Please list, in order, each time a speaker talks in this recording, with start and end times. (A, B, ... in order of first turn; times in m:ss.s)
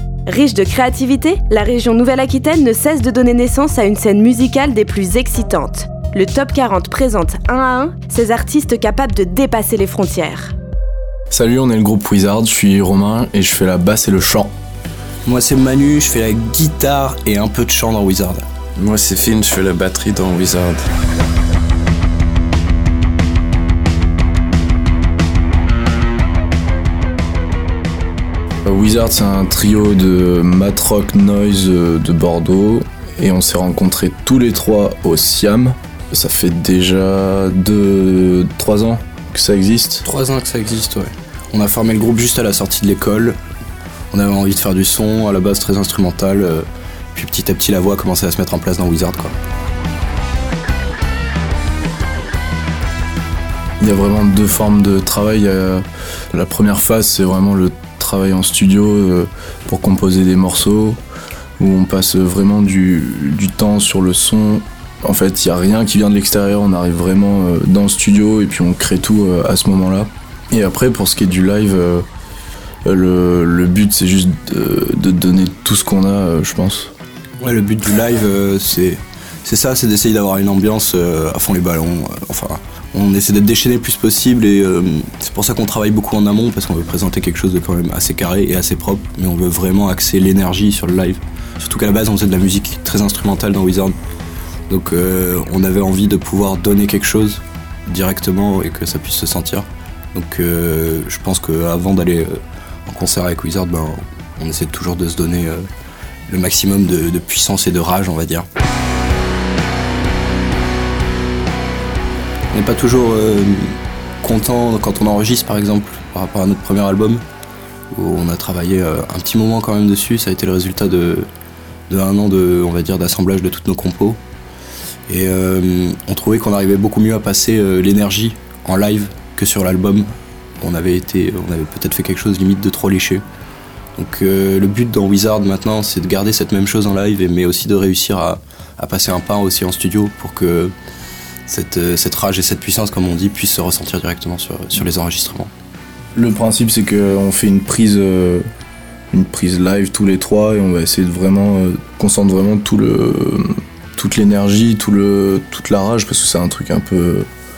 0:00.3-0:10.5 A
0:11.3-0:14.5 B
0:15.2-0:18.4 C
0:18.8-0:20.8 D
0:28.6-0:40.0 B
0:40.0-0:43.4 C
0:44.1-0:49.4 C
0:53.8-1:01.0 B
1:01.6-1:12.1 B
1:12.8-1:16.9 B
1:17.4-1:34.0 C
1:34.7-1:45.7 C
1:46.3-1:48.5 C
1:52.5-1:57.2 C
1:57.9-2:01.3 C
2:01.9-2:04.2 C
2:05.1-2:13.2 C
2:14.0-2:20.7 C
2:21.5-2:25.5 C
2:26.1-2:28.4 B
2:29.1-2:37.3 B